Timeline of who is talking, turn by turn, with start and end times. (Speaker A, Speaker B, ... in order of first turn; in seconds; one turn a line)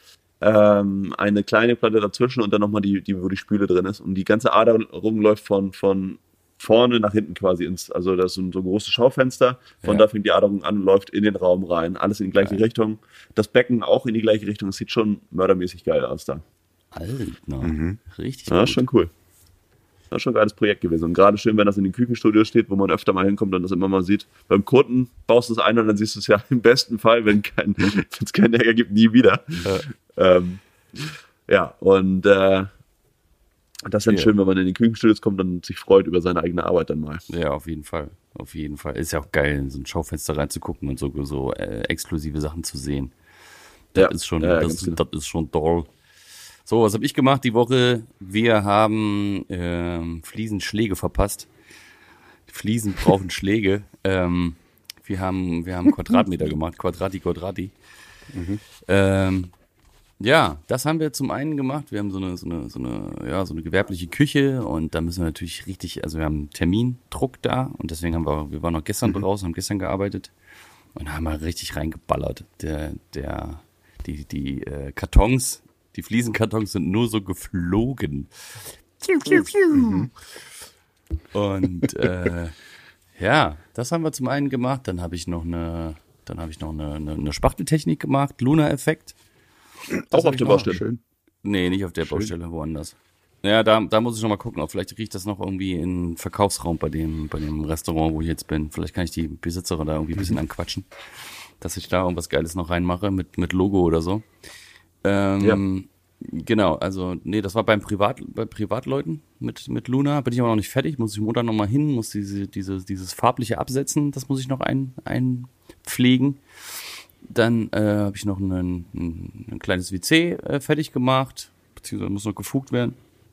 Speaker A: 0.4-16.4
Speaker B: 16.9-18.8
Speaker C: 17.6-18.0
Speaker A: 18.5-19.1
Speaker A: 20.1-32.7
Speaker A: 33.9-37.2
Speaker B: 34.1-34.3
Speaker B: 37.3-43.1
Speaker A: 43.9-45.0
Speaker B: 44.0-45.9
Speaker B: 46.6-51.5
Speaker B: 52.5-57.7
Speaker C: 58.3-58.6
Speaker B: 58.8-59.5
Speaker B: 60.2-70.3
Speaker B: 70.9-80.1
Speaker C: 79.7-80.1
Speaker B: 81.3-82.5
Speaker B: 83.2-89.2
Speaker C: 89.9-91.0
Speaker A: 90.1-90.8
Speaker B: 91.4-100.9
Speaker C: 92.0-92.3
Speaker B: 101.6-104.2
Speaker B: 105.0-116.4
Speaker B: 117.2-123.0